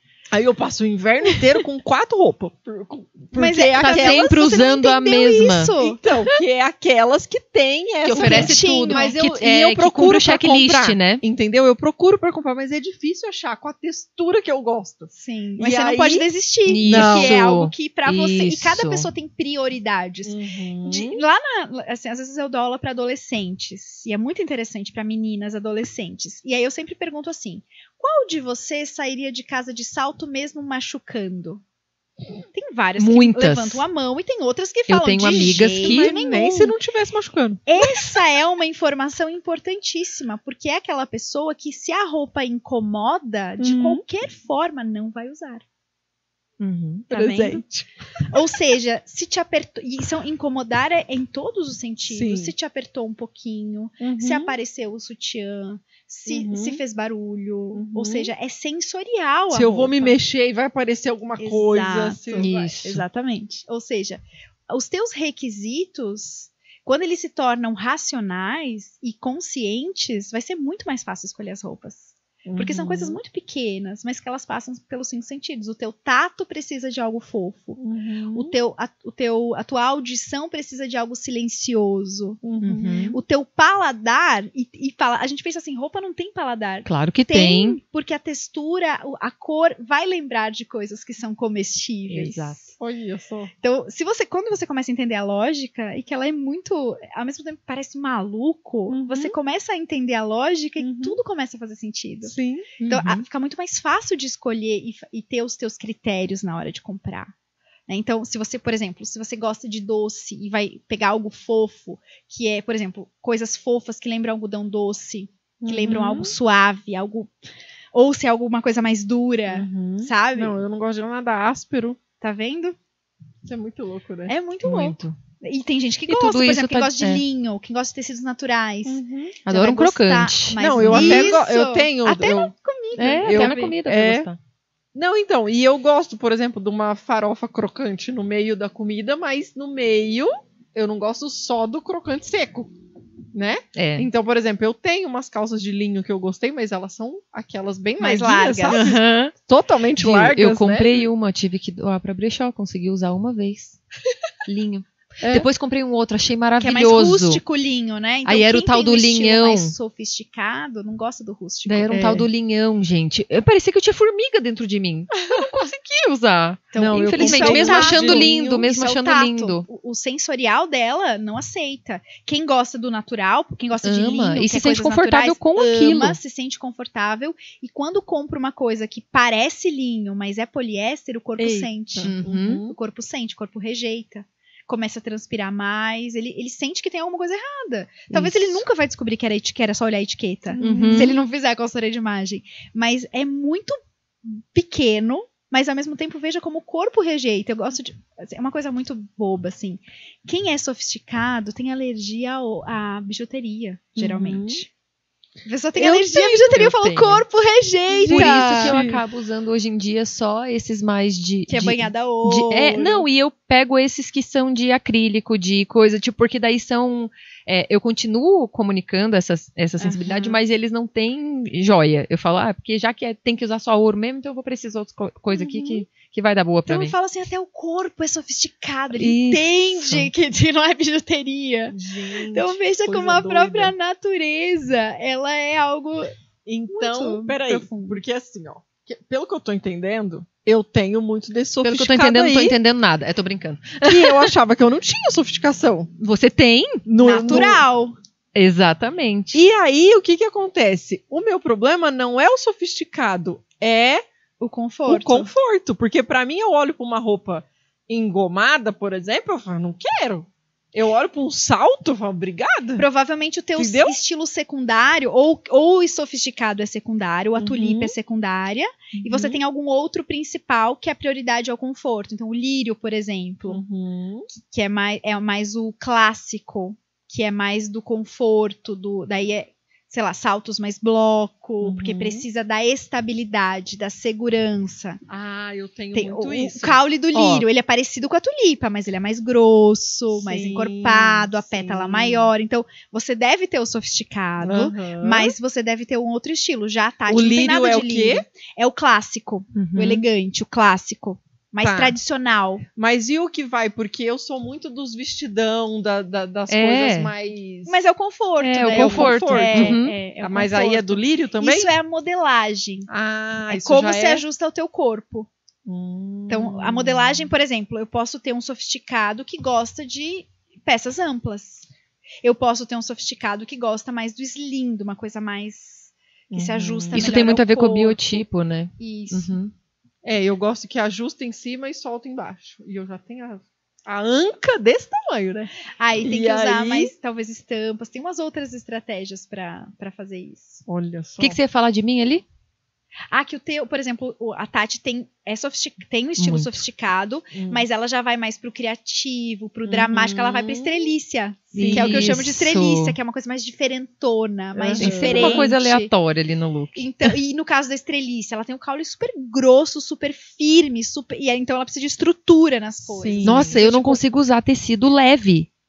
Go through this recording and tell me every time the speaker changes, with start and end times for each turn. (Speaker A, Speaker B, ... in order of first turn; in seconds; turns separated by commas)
Speaker A: 0.3-4.3, Speaker B: 3.3-6.0, Speaker C: 3.8-5.8, Speaker A: 5.8-16.3, Speaker C: 8.1-11.2, Speaker B: 8.1-9.2, Speaker B: 15.1-31.6, Speaker C: 16.7-19.1, Speaker A: 16.8-17.4, Speaker A: 20.2-21.2, Speaker B: 32.5-36.8, Speaker C: 33.0-33.8, Speaker C: 34.9-36.1, Speaker A: 35.8-37.9, Speaker B: 37.7-45.6, Speaker A: 43.6-44.0, Speaker C: 46.6-47.1, Speaker B: 47.1-47.6, Speaker A: 47.1-48.4, Speaker B: 48.3-60.2, Speaker A: 52.1-52.5, Speaker A: 54.0-54.5, Speaker A: 56.3-56.8, Speaker A: 57.7-58.3, Speaker A: 59.5-62.5, Speaker B: 61.4-77.8, Speaker C: 62.3-63.0, Speaker A: 72.5-73.2, Speaker A: 77.8-78.6, Speaker B: 78.3-82.5, Speaker A: 82.4-83.2, Speaker C: 82.6-83.2, Speaker B: 83.1-92.7, Speaker C: 86.8-87.8, Speaker C: 92.1-92.7, Speaker A: 92.8-93.5, Speaker B: 93.6-102.3, Speaker A: 98.9-99.4, Speaker A: 100.8-101.2, Speaker A: 102.2-102.9, Speaker C: 102.8-103.2, Speaker B: 102.9-107.3, Speaker B: 107.9-117.3, Speaker A: 115.6-116.3, Speaker B: 117.9-120.6, Speaker A: 119.5-122.0, Speaker B: 122.2-122.8, Speaker A: 123.5-124.3, Speaker B: 124.3-133.8, Speaker C: 124.6-125.2, Speaker C: 126.1-127.2, Speaker A: 128.8-129.4, Speaker C: 129.4-131.3, Speaker A: 130.6-132.5, Speaker C: 132.9-134.4, Speaker A: 133.2-134.3, Speaker A: 134.9-142.7, Speaker A: 143.3-151.1, Speaker C: 143.8-144.1, Speaker B: 148.0-148.8, Speaker C: 148.7-149.3, Speaker C: 150.0-153.8, Speaker C: 154.4-157.4, Speaker B: 156.6-162.2, Speaker C: 158.2-159.8, Speaker C: 161.7-169.7, Speaker A: 161.9-162.3, Speaker B: 166.7-204.7, Speaker A: 166.8-168.7, Speaker C: 173.8-176.2, Speaker A: 181.4-182.8, Speaker C: 182.0-182.7, Speaker C: 188.1-188.6, Speaker A: 190.5-191.2, Speaker C: 190.6-191.2, Speaker A: 204.0-204.6, Speaker B: 205.4-208.8, Speaker C: 205.8-207.3, Speaker A: 207.9-209.0, Speaker C: 208.0-227.0, Speaker B: 211.5-213.1, Speaker B: 219.8-220.4, Speaker B: 225.3-225.8, Speaker B: 226.7-231.8, Speaker C: 228.9-230.1, Speaker A: 231.7-233.7, Speaker B: 232.3-236.1, Speaker A: 236.4-242.6, Speaker B: 236.7-238.0, Speaker C: 241.6-244.3, Speaker A: 243.8-245.9, Speaker C: 246.0-247.5, Speaker A: 246.9-247.6, Speaker B: 247.0-248.0, Speaker C: 248.3-249.5, Speaker A: 249.3-254.0, Speaker B: 254.4-255.3, Speaker A: 254.9-262.9, Speaker B: 262.8-273.6, Speaker A: 263.6-264.0, Speaker A: 267.4-268.0, Speaker A: 268.9-269.4, Speaker A: 273.5-274.3, Speaker B: 274.3-285.0, Speaker A: 281.6-282.2, Speaker A: 285.1-286.8, Speaker B: 285.9-302.6, Speaker C: 287.1-287.4, Speaker A: 290.1-292.3, Speaker A: 294.4-295.4, Speaker A: 297.1-298.3, Speaker C: 299.5-300.0, Speaker A: 301.6-302.0, Speaker A: 302.8-307.8, Speaker C: 306.5-307.1, Speaker B: 307.7-312.9, Speaker C: 308.4-310.0, Speaker A: 308.7-311.8, Speaker A: 312.9-314.2, Speaker B: 313.5-315.3, Speaker A: 315.6-317.3, Speaker B: 316.3-321.7, Speaker B: 322.2-328.3, Speaker A: 326.3-327.3, Speaker C: 326.9-329.5, Speaker B: 328.8-329.4, Speaker A: 330.0-336.9, Speaker B: 335.8-340.6, Speaker A: 340.7-341.4, Speaker C: 341.2-342.2, Speaker B: 343.1-355.9, Speaker C: 346.2-346.6, Speaker A: 347.3-347.7, Speaker A: 349.7-350.9, Speaker C: 351.5-353.0, Speaker A: 351.5-352.2, Speaker A: 354.5-355.5, Speaker C: 354.8-357.2, Speaker B: 356.8-364.0, Speaker A: 362.9-363.6, Speaker C: 363.2-365.5